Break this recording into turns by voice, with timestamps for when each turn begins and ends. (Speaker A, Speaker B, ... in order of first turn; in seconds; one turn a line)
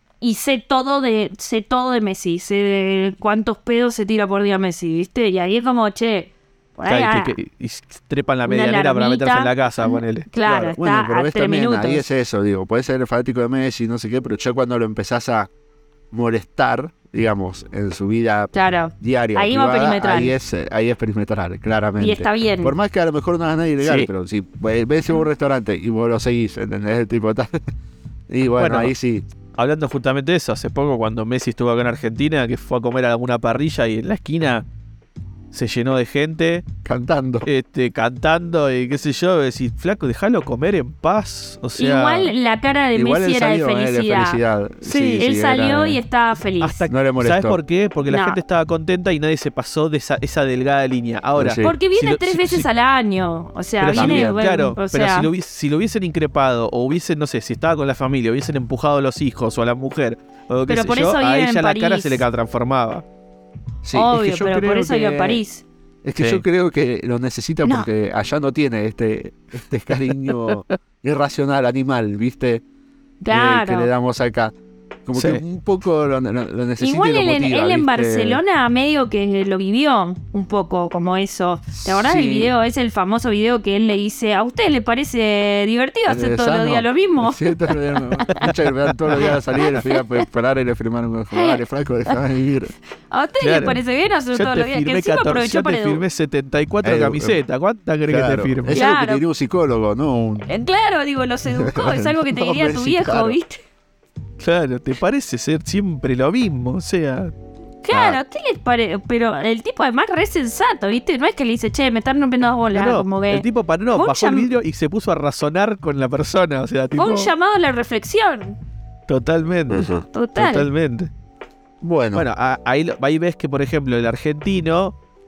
Speaker A: 0.2-7.3
Speaker B: 6.8-10.3
Speaker A: 8.4-12.1
Speaker C: 10.4-15.5
Speaker C: 16.1-27.7
Speaker A: 18.5-20.4
Speaker A: 22.0-22.8
Speaker B: 23.8-24.1
Speaker C: 28.3-29.2
Speaker B: 28.6-28.9
Speaker B: 29.6-34.6
Speaker B: 35.5-36.6
Speaker C: 36.8-37.5
Speaker B: 37.4-42.3
Speaker A: 41.8-46.8
Speaker C: 42.9-46.0
Speaker B: 46.6-52.6
Speaker C: 46.9-47.6
Speaker A: 48.1-48.4
Speaker C: 51.4-51.7
Speaker A: 51.6-55.3
Speaker B: 53.8-63.0
Speaker C: 53.9-54.4
Speaker A: 60.7-62.2
Speaker C: 63.8-65.4
Speaker A: 63.9-65.6
Speaker C: 66.0-72.6
Speaker B: 66.2-66.4
Speaker B: 70.1-70.6
Speaker A: 73.2-73.9
Speaker C: 73.3-74.5
Speaker C: 75.0-78.4
Speaker B: 75.1-75.4
Speaker A: 76.8-88.5
Speaker C: 81.7-82.5
Speaker C: 86.1-92.7
Speaker B: 88.3-89.3
Speaker A: 89.1-90.2
Speaker A: 91.3-92.2
Speaker A: 93.1-96.0
Speaker B: 93.4-93.8
Speaker B: 94.3-98.8
Speaker C: 96.8-97.4
Speaker C: 98.1-100.5
Speaker A: 98.7-99.2
Speaker A: 100.4-103.6
Speaker C: 101.5-103.4
Speaker B: 104.4-107.3
Speaker A: 107.8-114.5
Speaker C: 107.9-108.2
Speaker B: 112.7-117.3
Speaker A: 116.9-118.6
Speaker B: 119.1-121.1
Speaker C: 119.7-120.0
Speaker A: 120.1-120.7
Speaker C: 121.8-122.2
Speaker B: 122.1-124.9